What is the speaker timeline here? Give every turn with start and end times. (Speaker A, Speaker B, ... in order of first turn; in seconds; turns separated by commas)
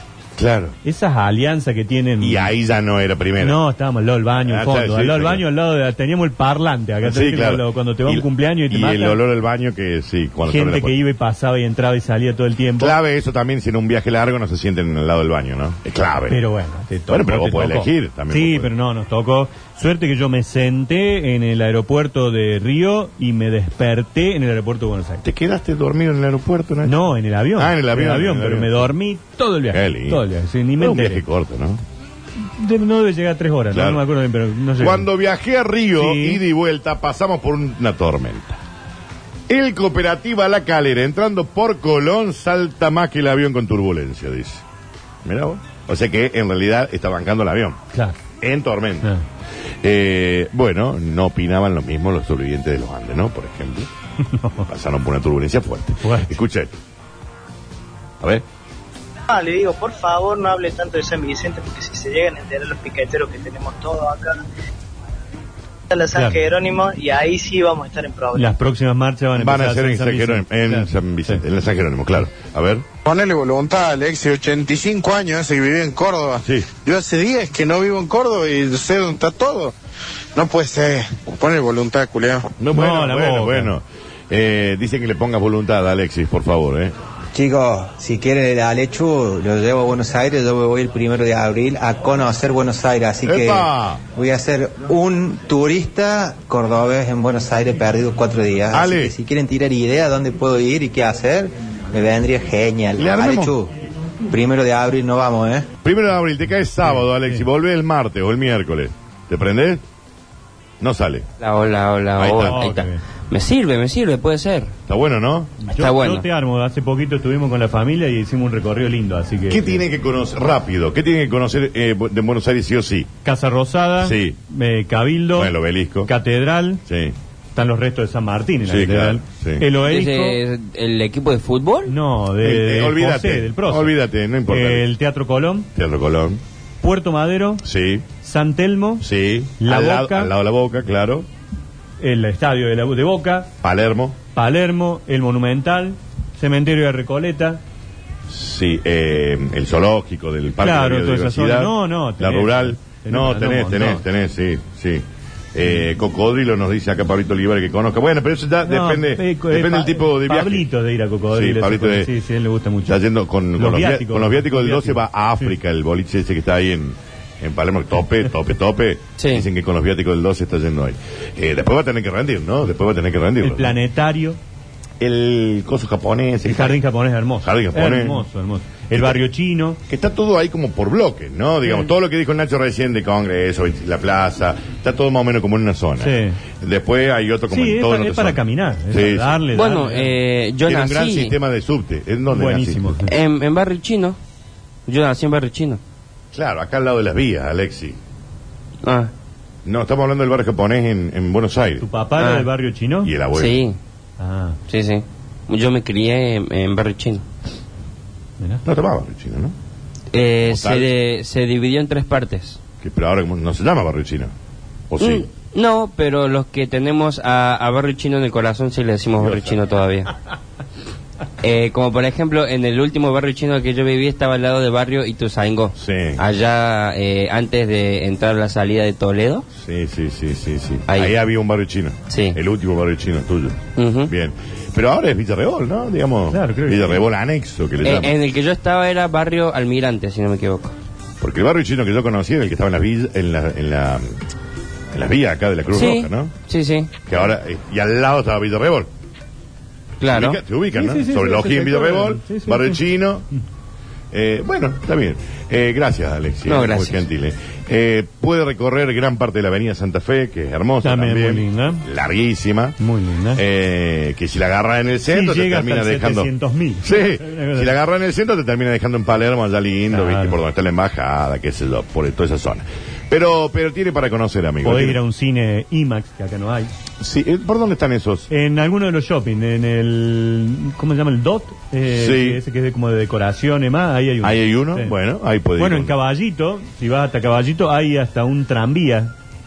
Speaker A: 0.4-0.8, Speaker B: 0.8-2.5, Speaker A: 2.2-3.6, Speaker B: 3.4-9.2, Speaker A: 4.4-5.4, Speaker A: 7.0-10.9, Speaker B: 10.5-13.0, Speaker A: 12.8-16.4, Speaker B: 16.3-25.2, Speaker A: 17.1-18.7, Speaker A: 25.2-27.0, Speaker B: 26.8-31.2, Speaker A: 27.6-28.9, Speaker A: 29.7-30.2, Speaker A: 30.8-31.8, Speaker B: 32.4-35.1, Speaker A: 33.7-34.0, Speaker A: 34.8-38.6, Speaker B: 36.0-36.4, Speaker A: 39.5-44.6, Speaker A: 45.2-47.8, Speaker A: 48.4-49.1, Speaker A: 49.8-53.9, Speaker B: 54.2-54.7, Speaker A: 54.6-56.8, Speaker B: 56.0-56.4, Speaker C: 59.3-64.4, Speaker C: 65.9-68.5, Speaker B: 66.2-66.4, Speaker B: 68.3-71.4, Speaker A: 69.4-72.9, Speaker D: 73.0-79.7, Speaker A: 76.4-76.7, Speaker D: 80.3-82.5, Speaker A: 82.6-87.0, Speaker B: 82.7-83.7, Speaker E: 87.3-103.7, Speaker A: 93.2-94.0, Speaker A: 98.7-99.2, Speaker A: 103.0-103.6, Speaker E: 104.3-105.7, Speaker A: 105.8-109.8, Speaker B: 106.8-107.5, Speaker A: 110.8-111.3, Speaker F: 111.4-114.7, Speaker A: 112.2-112.7, Speaker B: 112.4-113.0, Speaker A: 114.9-115.6, Speaker B: 115.7-119.8, Speaker F: 115.8-116.2, Speaker A: 119.5-123.1, Speaker B: 123.2-125.5, Speaker A: 124.0-124.4, Speaker A: 125.3-126.1, Speaker B: 126.0-126.8, Speaker A: 126.9-127.2, Speaker B: 127.5-130.4, Speaker A: 128.7-129.7, Speaker F: 129.8-131.9, Speaker B: 131.9-133.9, Speaker A: 132.4-134.9, Speaker B: 134.5-135.7, Speaker A: 135.8-136.4, Speaker B: 136.8-137.7, Speaker A: 137.6-138.1, Speaker B: 138.2-139.1, Speaker A: 139.0-141.3, Speaker B: 139.6-140.3, Speaker B: 142.0-143.5, Speaker A: 143.6-144.2, Speaker B: 144.3-147.6, Speaker A: 148.3-160.7, Speaker B: 150.6-154.1, Speaker B: 158.7-163.0, Speaker A: 161.3-162.1, Speaker A: 162.8-173.8, Speaker B: 163.6-165.5, Speaker F: 169.2-169.5, Speaker B: 173.4-174.4, Speaker A: 175.0-176.8, Speaker B: 176.5-179.8, Speaker A: 177.4-178.3, Speaker A: 178.9-179.2, Speaker A: 179.9-189.4, Speaker B: 181.7-181.9, Speaker B: 186.0-186.4, Speaker B: 187.5-190.1, Speaker F: 189.5-191.4, Speaker A: 190.7-193.0, Speaker B: 192.3-193.1, Speaker F: 193.1-194.2, Speaker F: 194.9-195.8, Speaker A: 196.3-198.0, Speaker F: 198.8-199.1, Speaker A: 199.7-201.8, Speaker B: 201.8-203.1, Speaker F: 202.2-202.5, Speaker A: 203.0-203.6, Speaker F: 203.3-203.8, Speaker B: 204.2-204.6, Speaker F: 204.7-207.2, Speaker A: 208.7-209.6, Speaker F: 210.1-212.6, Speaker A: 210.4-210.9, Speaker A: 212.8-214.3, Speaker A: 214.9-215.3, Speaker F: 215.0-220.1, Speaker A: 219.2-219.6, Speaker F: 221.4-229.5, Speaker A: 225.8-226.2, Speaker A: 229.6-238.2, Speaker F: 230.9-231.1, Speaker F: 232.1-232.4, Speaker F: 233.8-234.1, Speaker B: 236.3-237.0, Speaker F: 237.8-240.8, Speaker A: 241.2-244.1, Speaker A: 244.9-246.3, Speaker F: 245.7-247.0, Speaker A: 247.1-248.9, Speaker F: 250.0-250.4, Speaker A: 250.1-253.2, Speaker B: 250.7-252.8, Speaker A: 254.1-262.8, Speaker F: 256.5-257.1, Speaker B: 260.8-261.8, Speaker B: 262.8-263.4, Speaker A: 263.3-266.3, Speaker B: 265.1-267.7, Speaker A: 266.8-275.0, Speaker B: 269.9-270.4, Speaker B: 274.6-276.7, Speaker A: 277.0-278.3, Speaker B: 278.3-284.9, Speaker A: 281.9-282.4, Speaker A: 284.2-285.9, Speaker B: 285.6-289.1